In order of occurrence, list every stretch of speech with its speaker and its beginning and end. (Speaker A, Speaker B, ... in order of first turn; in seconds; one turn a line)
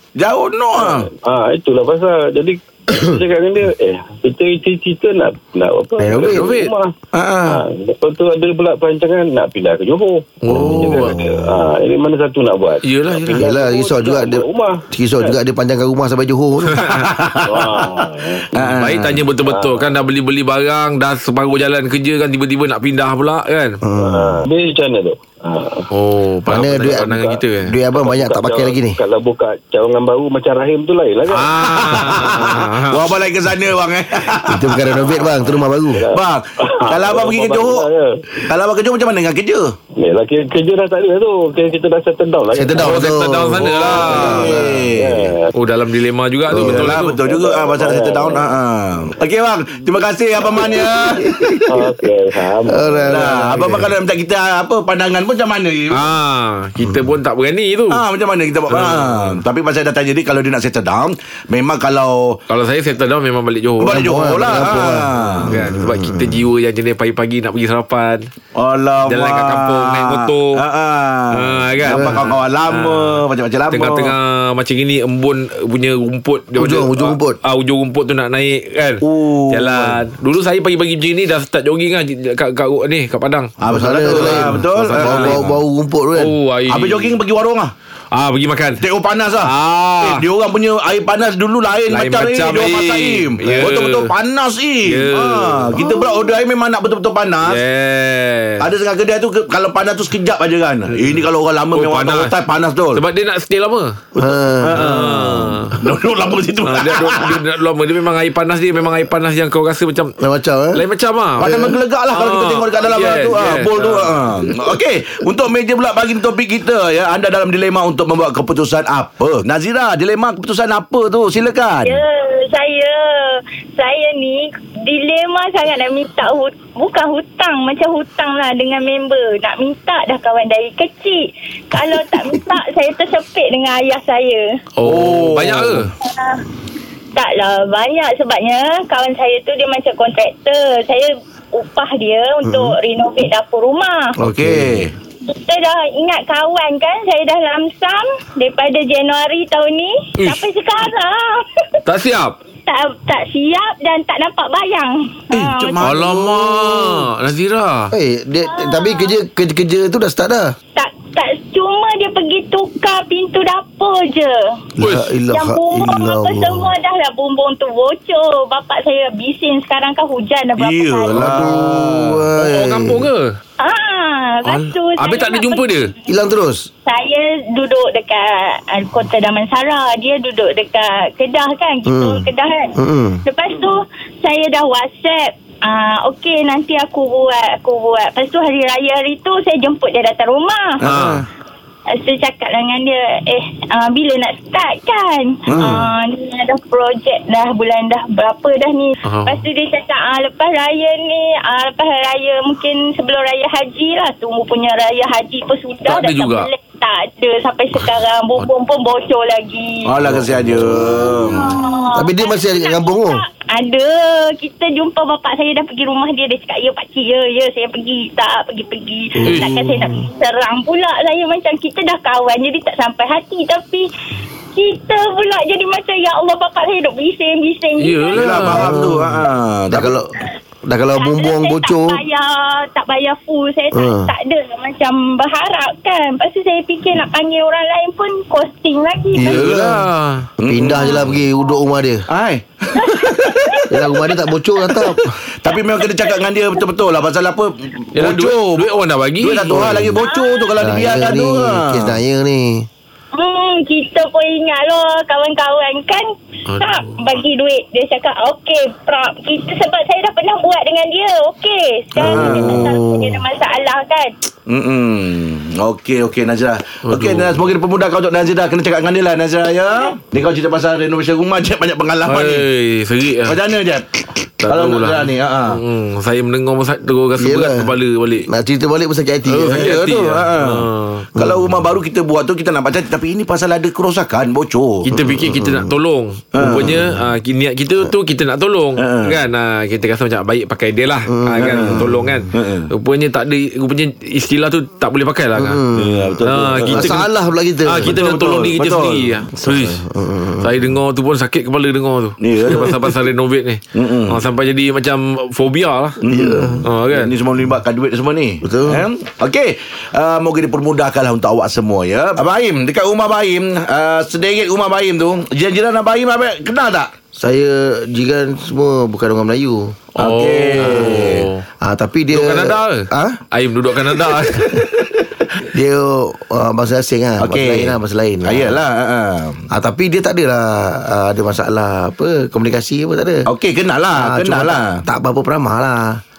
Speaker A: 0.2-1.1
Speaker B: 0.8-6.9
Speaker C: 6.0-6.5
Speaker D: 6.3-6.7
Speaker A: 7.1-7.6
Speaker B: 7.5-15.3
Speaker D: 10.4-11.2
Speaker C: 10.5-11.2
Speaker D: 12.8-13.4
Speaker C: 13.4-16.9
Speaker D: 16.7-17.1
Speaker A: 16.9-19.2
Speaker B: 17.4-18.5
Speaker D: 18.6-23.8
Speaker B: 19.4-19.9
Speaker C: 23.8-24.4
Speaker B: 24.0-25.9
Speaker D: 25.9-27.7
Speaker C: 26.5-29.0
Speaker B: 26.9-27.4
Speaker B: 27.9-31.6
Speaker D: 31.3-33.2
Speaker A: 31.8-35.2
Speaker C: 34.4-36.0
Speaker B: 35.9-38.2
Speaker A: 36.1-37.9
Speaker A: 38.5-39.7
Speaker B: 40.0-43.1
Speaker C: 42.5-44.9
Speaker D: 42.8-44.5
Speaker B: 43.7-45.5
Speaker A: 44.1-45.3
Speaker D: 45.5-47.2
Speaker A: 46.5-51.6
Speaker C: 46.6-46.8
Speaker B: 47.2-48.5
Speaker B: 50.5-51.0
Speaker C: 50.5-51.9
Speaker B: 51.6-53.7
Speaker C: 52.7-53.9
Speaker A: 53.1-56.1
Speaker D: 55.9-58.0
Speaker A: 57.9-62.4
Speaker D: 58.7-59.4
Speaker D: 62.5-68.3
Speaker A: 63.8-65.5
Speaker C: 63.9-66.4
Speaker A: 68.5-74.1
Speaker D: 69.0-70.6
Speaker D: 71.3-85.4
Speaker C: 71.9-72.2
Speaker C: 76.6-77.4
Speaker A: 79.0-80.0
Speaker A: 83.6-85.5
Speaker C: 83.7-86.3
Speaker D: 86.2-87.2
Speaker A: 86.7-87.7
Speaker D: 88.1-88.8
Speaker A: 88.8-97.6
Speaker D: 89.4-90.3
Speaker D: 91.9-94.1
Speaker D: 94.8-95.8
Speaker C: 95.8-96.1
Speaker D: 97.4-98.7
Speaker A: 98.6-103.0
Speaker D: 101.7-102.3
Speaker D: 102.9-104.0
Speaker C: 104.2-104.8
Speaker A: 104.6-107.4
Speaker D: 104.7-105.8
Speaker D: 106.6-110.1
Speaker C: 110.2-110.8
Speaker D: 110.7-114.2
Speaker A: 111.4-122.0
Speaker C: 111.4-111.7
Speaker E: 121.8-134.6
Speaker D: 134.8-135.9
Speaker A: 134.8-135.8
Speaker E: 136.0-136.4
Speaker E: 137.2-144.1
Speaker C: 142.4-142.8
Speaker C: 144.2-144.9
Speaker A: 144.2-144.9
Speaker E: 145.2-151.7
Speaker D: 150.2-150.4
Speaker D: 151.9-152.3
Speaker E: 152.7-155.8
Speaker A: 155.3-157.0
Speaker D: 155.8-157.9
Speaker C: 157.9-160.6
Speaker E: 158.5-159.1
Speaker E: 160.8-164.6
Speaker C: 164.8-166.7
Speaker D: 164.8-165.1
Speaker E: 165.3-171.2
Speaker A: 170.6-172.3
Speaker C: 171.1-173.1
Speaker D: 172.4-173.3
Speaker E: 173.6-175.8
Speaker D: 174.5-175.9
Speaker C: 176.1-176.7
Speaker E: 176.8-190.8
Speaker C: 181.8-183.2
Speaker A: 190.8-191.2
Speaker D: 190.8-191.2
Speaker E: 191.9-209.9
Speaker A: 195.5-195.9
Speaker D: 199.0-199.4
Speaker D: 205.8-206.5
Speaker A: 209.8-211.5
Speaker C: 210.4-213.2
Speaker E: 210.7-223.9
Speaker C: 219.2-220.0
Speaker D: 219.2-219.6
Speaker E: 224.5-228.4
Speaker D: 227.8-229.0
Speaker A: 228.1-230.0
Speaker C: 228.5-230.1
Speaker C: 230.6-232.0
Speaker E: 230.9-239.4
Speaker C: 233.7-234.1
Speaker C: 239.1-239.8
Speaker D: 239.2-240.3
Speaker A: 240.4-241.1
Speaker C: 240.4-242.1
Speaker E: 240.8-241.1
Speaker A: 242.1-243.7
Speaker E: 242.7-244.1
Speaker C: 243.7-245.1
Speaker A: 245.4-248.7
Speaker E: 245.4-246.2
Speaker D: 247.9-249.8
Speaker A: 249.2-251.9
Speaker C: 249.6-250.0
Speaker E: 250.0-250.6
Speaker C: 250.6-252.7
Speaker E: 253.1-264.1
Speaker D: 256.5-256.9
Speaker A: 262.0-262.7
Speaker C: 262.0-263.2
Speaker A: 264.5-272.4
Speaker D: 266.8-267.4
Speaker D: 272.1-273.4
Speaker A: 273.2-273.9
Speaker D: 274.4-278.3
Speaker A: 274.4-275.6
Speaker C: 277.2-277.7
Speaker C: 278.2-279.7
Speaker D: 279.3-281.1
Speaker A: 279.5-284.9
Speaker C: 281.2-281.5
Speaker D: 284.8-295.6
Speaker C: 285.0-285.7
Speaker A: 286.3-286.9
Speaker A: 288.8-289.2
Speaker C: 291.1-292.0
Speaker A: 291.4-292.7
Speaker C: 295.4-296.1
Speaker A: 295.7-297.0
Speaker D: 296.2-297.1
Speaker C: 296.7-298.0
Speaker D: 297.6-299.8
Speaker A: 297.8-299.1
Speaker C: 299.4-300.7
Speaker D: 300.4-306.0
Speaker A: 302.2-302.9
Speaker A: 303.7-304.2
Speaker A: 306.0-316.9
Speaker C: 306.1-306.6
Speaker D: 306.6-307.1
Speaker C: 308.4-308.9
Speaker C: 317.1-319.8
Speaker D: 320.0-321.4
Speaker A: 320.0-321.3
Speaker C: 320.6-321.0
Speaker C: 321.6-323.2
Speaker D: 322.1-324.6
Speaker C: 325.5-328.6
Speaker A: 327.2-329.4
Speaker C: 329.5-333.2
Speaker A: 333.3-334.8
Speaker C: 333.9-336.0